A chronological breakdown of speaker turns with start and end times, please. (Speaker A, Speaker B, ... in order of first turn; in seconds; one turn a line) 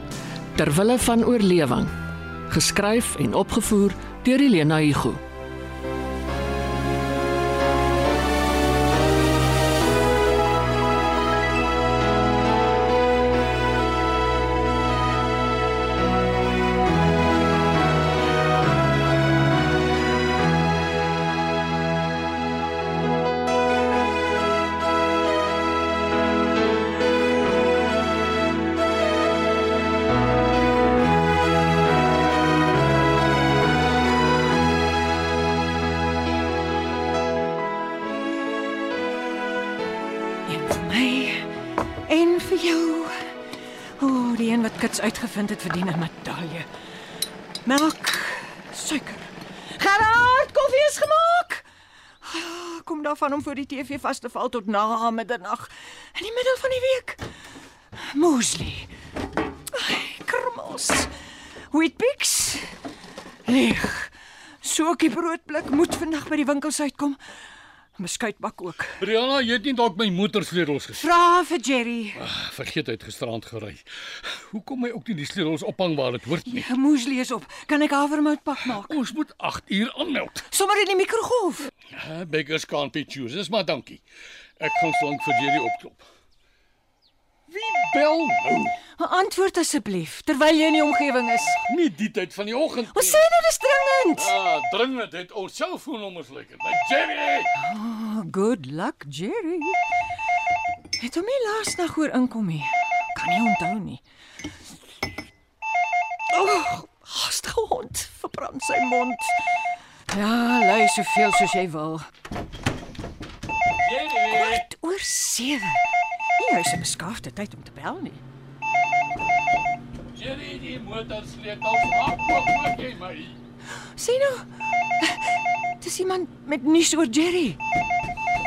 Speaker A: 0.6-1.9
Speaker A: 2.5-5.2
Speaker B: 40.5-41.5
Speaker B: 42.0-43.3
Speaker B: 44.0-46.7
Speaker B: 47.6-51.6
Speaker B: 52.2-57.3
Speaker B: 57.9-58.9
Speaker B: 59.7-61.1
Speaker B: 61.7-62.7
Speaker B: 63.5-67.2
Speaker B: 68.0-69.0
Speaker C: 69.0-71.0
Speaker B: 70.9-72.2
Speaker C: 72.2-76.7
Speaker B: 76.3-79.0
Speaker C: 78.8-80.4
Speaker B: 80.5-81.7
Speaker C: 81.9-84.0
Speaker C: 84.6-86.0
Speaker C: 87.5-88.8
Speaker B: 88.9-91.6
Speaker C: 91.7-93.2
Speaker B: 92.9-94.3
Speaker C: 94.2-97.5
Speaker B: 97.5-99.8
Speaker B: 101.0-104.0
Speaker B: 106.3-109.4
Speaker B: 110.1-112.0
Speaker C: 113.8-114.6
Speaker B: 114.3-115.8
Speaker B: 116.4-118.2
Speaker C: 120.1-123.4
Speaker B: 124.0-124.5
Speaker B: 125.0-127.6